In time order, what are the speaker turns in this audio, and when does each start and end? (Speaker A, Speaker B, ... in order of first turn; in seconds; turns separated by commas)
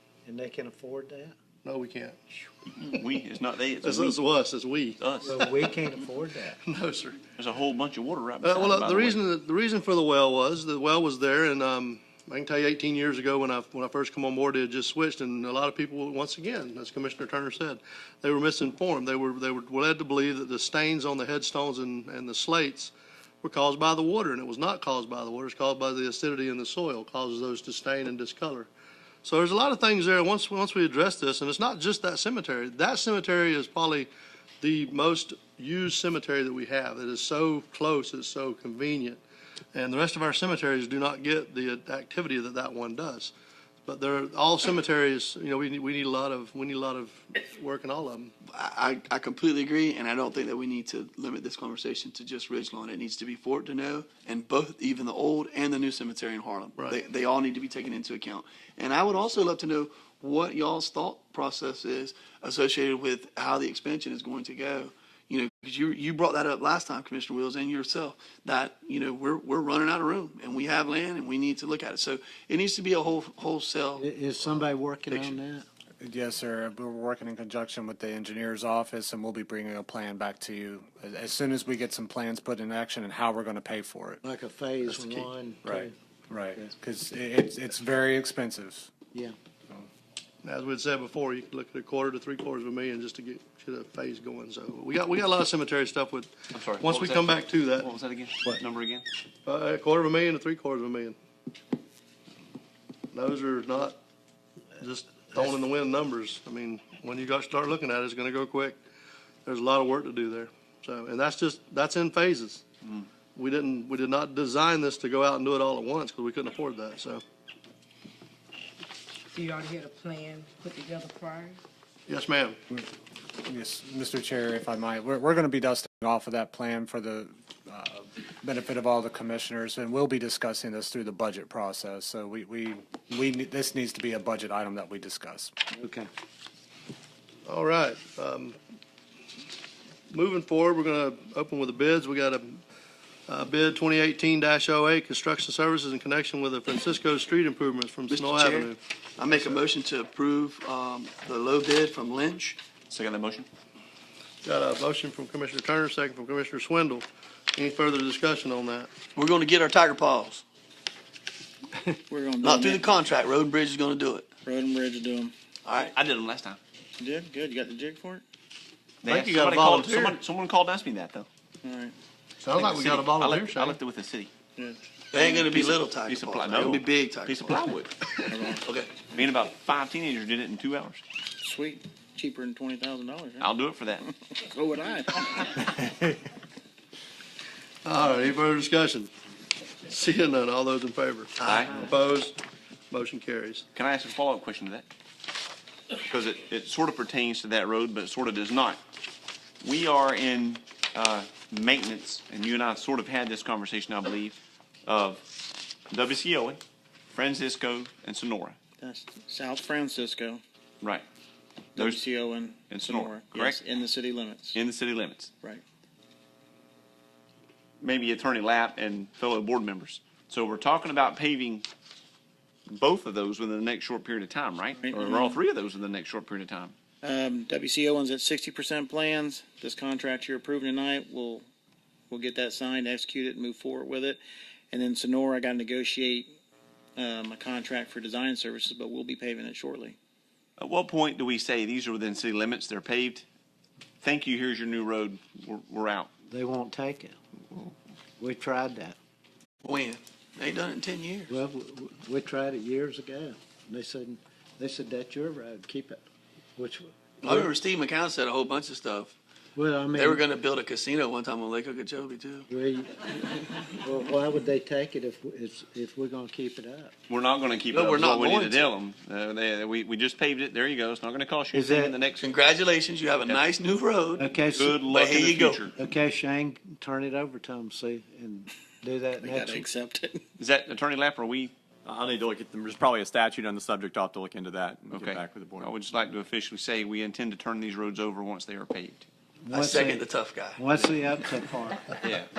Speaker A: 0.2-1.3, Speaker B: 1.6-2.2, Speaker C: 2.8-4.2, Speaker B: 3.8-5.5, Speaker C: 5.0-5.4, Speaker A: 5.2-6.6, Speaker B: 6.6-7.2, Speaker C: 7.4-9.2, Speaker B: 8.4-28.7, Speaker B: 29.2-34.1, Speaker B: 34.6-39.2, Speaker B: 39.7-43.3, Speaker B: 43.9-48.3, Speaker D: 48.4-74.1, Speaker A: 74.0-75.7, Speaker D: 75.1-75.4, Speaker E: 76.0-84.2, Speaker A: 84.2-85.9, Speaker E: 85.0-88.9, Speaker B: 90.4-97.9, Speaker C: 96.5-99.0, Speaker B: 99.4-101.2, Speaker B: 103.1-104.0, Speaker B: 104.8-108.8, Speaker B: 109.4-112.6, Speaker B: 113.3-117.2, Speaker F: 119.3-121.6, Speaker B: 122.1-122.6, Speaker E: 123.4-135.5, Speaker A: 135.8-136.1, Speaker B: 137.4-138.6, Speaker B: 140.1-142.6, Speaker B: 143.3-149.6, Speaker D: 148.1-152.6, Speaker C: 152.9-153.5, Speaker B: 154.4-159.0, Speaker D: 159.1-160.4, Speaker G: 162.1-162.9, Speaker D: 162.4-164.3, Speaker G: 164.4-165.3, Speaker D: 165.6-165.9, Speaker C: 165.7-166.6, Speaker G: 167.0-168.2, Speaker C: 169.0-171.3, Speaker B: 169.1-170.2, Speaker G: 171.6-171.9, Speaker B: 172.4-173.8, Speaker C: 172.5-174.3, Speaker G: 174.6-175.3, Speaker D: 175.1-179.0, Speaker C: 175.5-178.0, Speaker G: 178.3-178.6, Speaker C: 179.0-181.0, Speaker G: 181.4-183.5, Speaker C: 183.4-184.0, Speaker G: 184.0-185.7, Speaker B: 187.8-189.1, Speaker B: 189.9-192.3, Speaker D: 191.4-191.9, Speaker C: 191.4-191.8, Speaker B: 192.9-193.7, Speaker C: 193.7-194.8, Speaker C: 196.1-198.8, Speaker C: 199.6-208.6, Speaker G: 208.8-210.4, Speaker G: 211.7-214.6, Speaker C: 211.8-212.1, Speaker C: 212.7-213.6, Speaker C: 214.5-215.3, Speaker C: 217.8-221.7, Speaker C: 222.7-226.7, Speaker G: 224.7-225.4, Speaker G: 227.0-231.4, Speaker G: 232.1-234.2, Speaker G: 234.7-236.3, Speaker G: 236.9-240.0, Speaker C: 240.6-243.2, Speaker C: 244.0-246.1, Speaker A: 246.3-247.2, Speaker A: 248.2-249.0, Speaker D: 249.6-251.3, Speaker A: 251.3-256.0, Speaker A: 256.6-257.5, Speaker D: 257.2-259.1, Speaker A: 259.5-260.2, Speaker D: 259.9-262.5, Speaker A: 262.5-266.9, Speaker C: 267.1-272.3, Speaker D: 267.7-268.7, Speaker A: 271.5-271.9, Speaker D: 272.2-274.3, Speaker C: 273.2-273.4, Speaker A: 274.2-274.8, Speaker C: 274.5-275.7, Speaker D: 274.9-275.7, Speaker A: 275.8-279.7, Speaker G: 279.2-280.2, Speaker C: 280.4-281.5, Speaker H: 281.8-285.7, Speaker C: 284.9-289.1, Speaker A: 289.4-290.0, Speaker D: 289.5-290.6, Speaker A: 290.5-291.9, Speaker C: 292.0-292.3